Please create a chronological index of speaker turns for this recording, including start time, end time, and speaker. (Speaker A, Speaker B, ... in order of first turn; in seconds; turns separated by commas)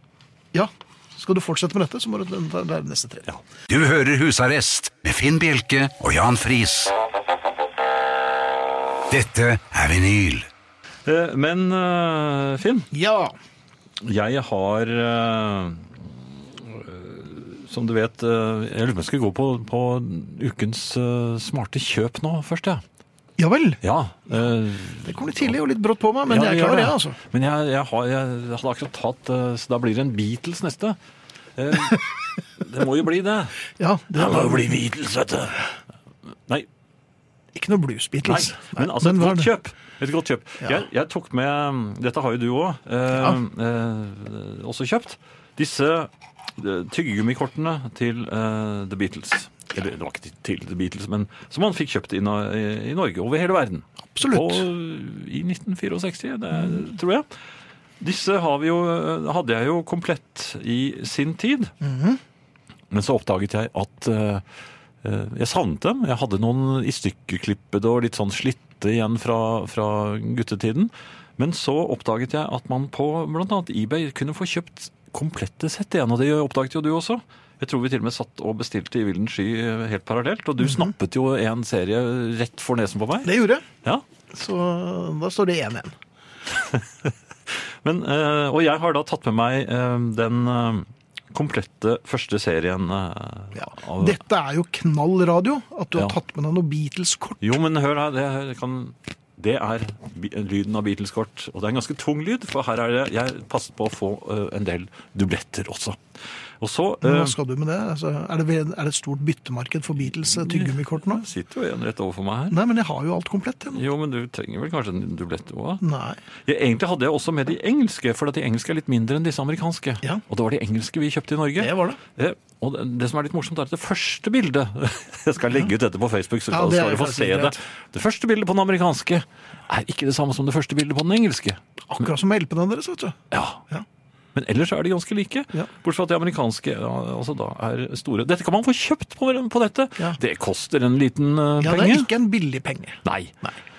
Speaker A: 0.5-3.3, Speaker B: 3.7-6.9, Speaker B: 9.1-10.5, Speaker C: 11.1-12.9, Speaker A: 12.9-13.3, Speaker C: 14.0-22.8, Speaker A: 23.4-24.5, Speaker C: 23.8-25.5, Speaker A: 25.0-27.2, Speaker C: 26.3-31.0, Speaker C: 31.6-32.1, Speaker C: 32.6-35.6, Speaker A: 33.8-34.7, Speaker A: 37.5-39.5, Speaker C: 38.3-57.3, Speaker A: 54.1-54.7, Speaker C: 58.0-61.7, Speaker A: 61.8-62.2, Speaker C: 62.9-64.4, Speaker C: 65.0-83.3, Speaker A: 80.6-80.9, Speaker A: 83.2-83.7, Speaker A: 84.3-85.9, Speaker C: 86.5-94.2, Speaker A: 93.5-97.4, Speaker C: 97.4-106.0, Speaker C: 106.6-107.3, Speaker A: 107.0-111.2, Speaker C: 110.3-112.6, Speaker A: 112.5-113.8, Speaker C: 113.7-115.8, Speaker A: 115.8-116.2, Speaker C: 116.5-131.6, Speaker A: 121.6-122.0, Speaker A: 126.5-127.6, Speaker A: 131.9-133.2, Speaker C: 133.3-133.6, Speaker C: 134.3-142.1, Speaker A: 141.6-143.6, Speaker C: 143.1-143.3